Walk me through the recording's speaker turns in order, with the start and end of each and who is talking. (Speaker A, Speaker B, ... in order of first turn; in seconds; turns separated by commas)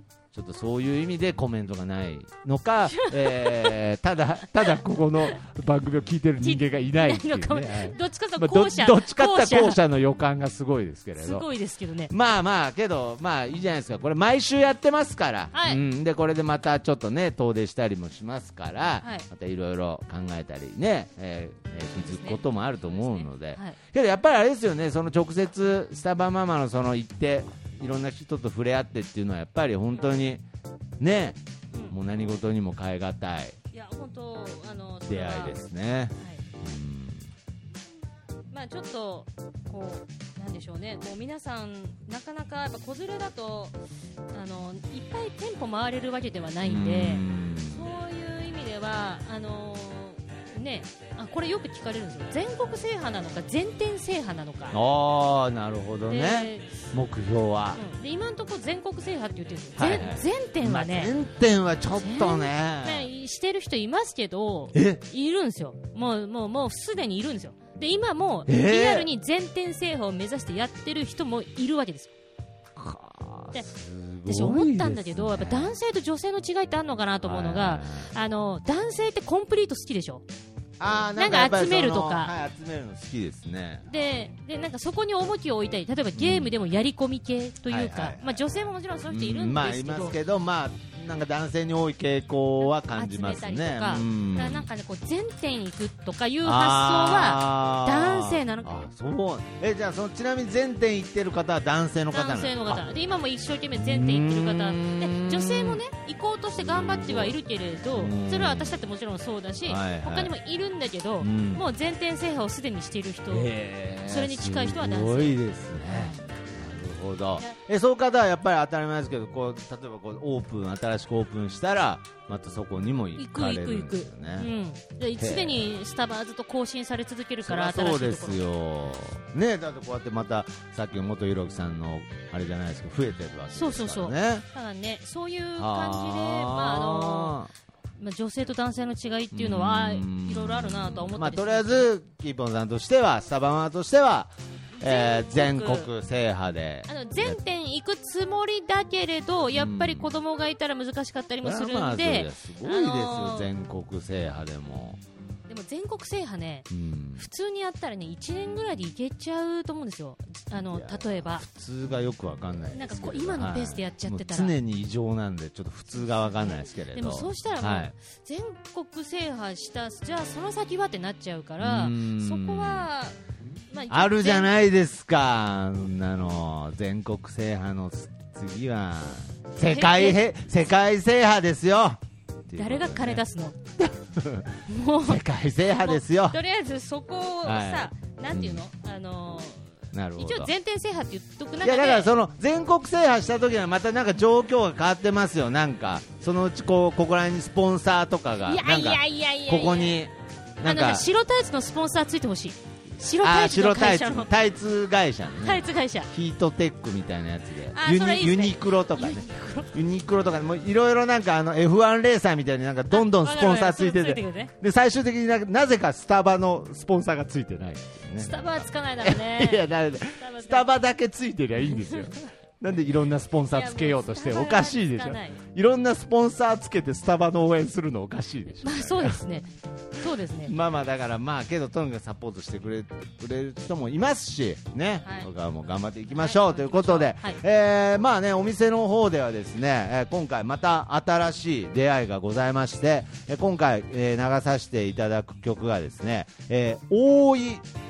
Speaker A: 0.3-11.5, Speaker B: 2.9-3.8, Speaker B: 6.4-9.8, Speaker B: 11.2-12.1, Speaker A: 12.1-30.4, Speaker B: 15.5-15.8, Speaker B: 19.0-19.3, Speaker B: 21.9-23.8, Speaker A: 31.0-33.6, Speaker B: 33.7-35.6, Speaker A: 35.1-37.3, Speaker B: 38.5-43.8, Speaker B: 44.3-54.8, Speaker A: 46.6-47.8, Speaker A: 54.7-57.8, Speaker B: 56.1-56.8, Speaker B: 57.8-61.1, Speaker A: 59.8-63.1, Speaker B: 62.0-72.1, Speaker A: 64.7-65.0, Speaker A: 68.5-69.1, Speaker A: 72.8-75.8, Speaker B: 74.2-80.2, Speaker A: 77.2-78.1, Speaker A: 80.8-84.1, Speaker B: 81.2-82.3, Speaker B: 83.9-90.2, Speaker A: 86.2-86.5, Speaker A: 87.7-94.7, Speaker B: 92.7-98.7, Speaker A: 96.4-102.8, Speaker B: 102.1-113.5, Speaker A: 103.8-105.8, Speaker A: 106.6-107.4, Speaker A: 108.0-108.8, Speaker A: 109.7-110.3, Speaker A: 111.2-111.6, Speaker A: 113.3-124.5, Speaker B: 114.0-116.2, Speaker B: 123.2-128.4, Speaker A: 125.2-125.6, Speaker A: 127.5-134.5, Speaker B: 133.5-137.4, Speaker A: 135.6-137.5, Speaker B: 138.0-141.9, Speaker A: 139.3-147.4, Speaker B: 144.8-145.9, Speaker B: 146.9-153.5, Speaker A: 149.6-150.1, Speaker A: 151.4-155.0, Speaker B: 155.5-161.4, Speaker A: 156.7-157.3, Speaker A: 160.7-167.9, Speaker B: 162.7-164.6, Speaker B: 166.1-173.2, Speaker A: 171.6-172.9, Speaker B: 173.7-174.5, Speaker A: 173.9-183.2, Speaker B: 179.6-180.3, Speaker B: 182.6-183.6, Speaker A: 183.8-186.4, Speaker B: 184.7-192.1, Speaker A: 187.4-188.6, Speaker A: 189.9-190.5, Speaker A: 191.6-201.1, Speaker B: 198.4-200.0, Speaker B: 200.7-204.3, Speaker A: 203.2-229.2, Speaker B: 205.4-206.1, Speaker B: 207.7-209.8, Speaker B: 212.9-214.5, Speaker B: 218.2-220.7, Speaker B: 221.7-222.1, Speaker B: 223.5-225.4, Speaker B: 228.6-230.5, Speaker A: 230.4-247.7, Speaker B: 235.0-235.3, Speaker B: 236.2-237.4